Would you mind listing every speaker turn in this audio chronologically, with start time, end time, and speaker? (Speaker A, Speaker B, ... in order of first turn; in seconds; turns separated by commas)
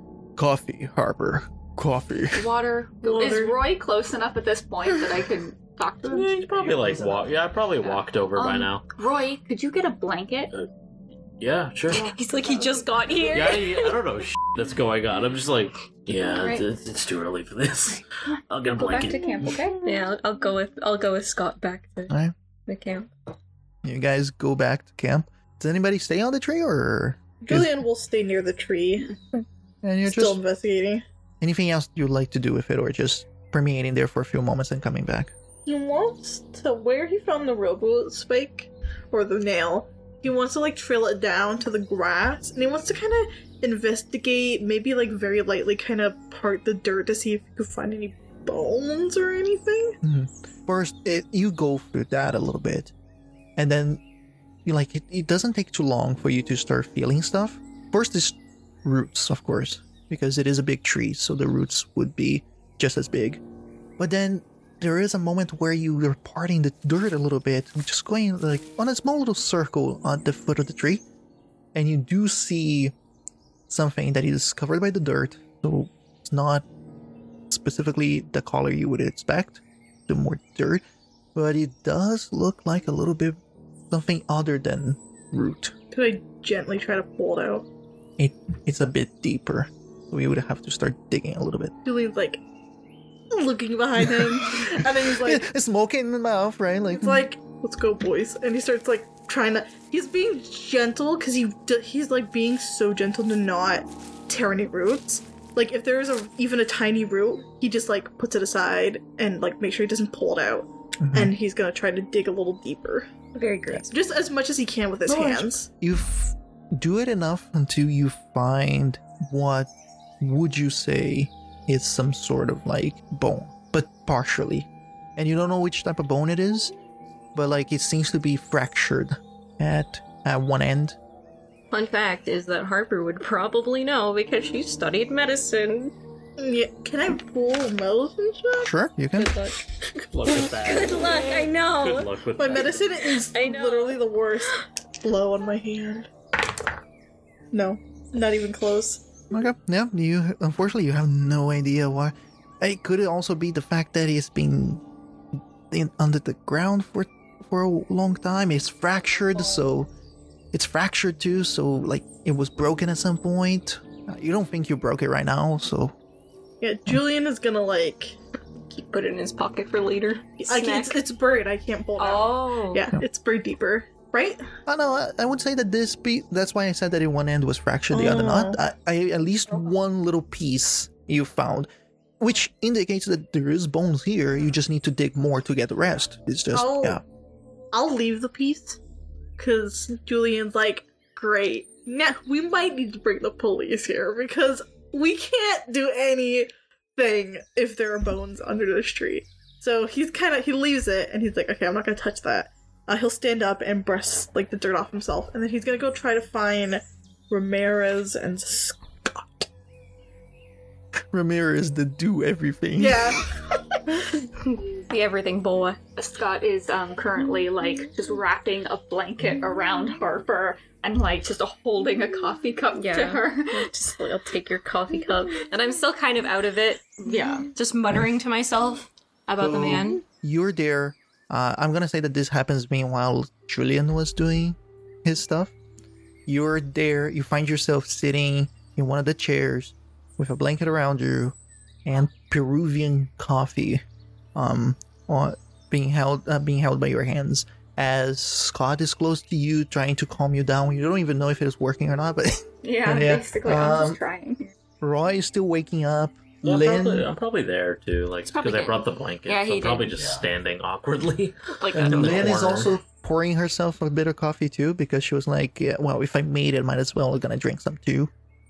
Speaker A: 0.4-2.4, Speaker B: 2.4-6.5, Speaker C: 3.0-3.6, Speaker C: 6.1-7.3, Speaker D: 6.6-8.8, Speaker B: 7.8-10.5, Speaker D: 11.4-12.1, Speaker B: 11.9-12.6, Speaker E: 12.0-13.9, Speaker D: 13.3-19.4, Speaker E: 16.4-16.6, Speaker B: 18.7-19.8, Speaker E: 19.8-22.1, Speaker E: 22.7-23.1, Speaker A: 23.8-27.8, Speaker C: 27.4-29.4, Speaker A: 29.8-30.4, Speaker C: 30.0-31.0, Speaker A: 31.4-35.3, Speaker C: 35.6-50.0, Speaker A: 50.0-52.9, Speaker A: 53.6-54.0, Speaker A: 54.6-63.4, Speaker A: 64.0-71.0, Speaker A: 71.7-72.9, Speaker A: 73.7-76.6, Speaker A: 77.5-80.8, Speaker A: 81.3-83.4, Speaker A: 83.9-85.7, Speaker C: 85.9-87.6, Speaker A: 88.2-91.7, Speaker C: 91.8-92.4, Speaker C: 93.3-95.4, Speaker A: 94.0-97.2, Speaker C: 96.9-113.1, Speaker A: 111.0-111.3, Speaker E: 113.3-113.9, Speaker C: 113.9-115.7, Speaker A: 115.0-126.7, Speaker A: 127.3-131.0, Speaker E: 131.7-135.9, Speaker C: 136.4-138.7, Speaker A: 138.6-139.4, Speaker E: 139.2-142.2, Speaker D: 140.1-142.9, Speaker C: 142.4-146.1, Speaker E: 143.1-144.0, Speaker C: 147.5-149.0, Speaker A: 149.3-154.8, Speaker A: 155.7-159.9, Speaker A: 160.5-165.9, Speaker C: 166.6-168.2, Speaker E: 168.6-171.0, Speaker C: 170.4-174.4, Speaker E: 172.0-172.9, Speaker A: 174.7-187.0, Speaker C: 177.9-178.6, Speaker C: 186.5-187.0, Speaker C: 187.7-188.8, Speaker C: 189.4-209.5, Speaker A: 211.1-213.2, Speaker C: 212.8-213.3, Speaker E: 214.0-215.8, Speaker B: 215.9-223.7, Speaker E: 222.8-230.0, Speaker B: 227.0-227.5, Speaker A: 229.4-235.5, Speaker A: 236.3-243.8, Speaker A: 244.3-254.0, Speaker B: 252.6-254.5, Speaker A: 254.8-257.1, Speaker D: 256.4-262.7, Speaker B: 258.3-258.8, Speaker E: 259.2-260.1, Speaker E: 261.6-262.3, Speaker A: 261.7-268.1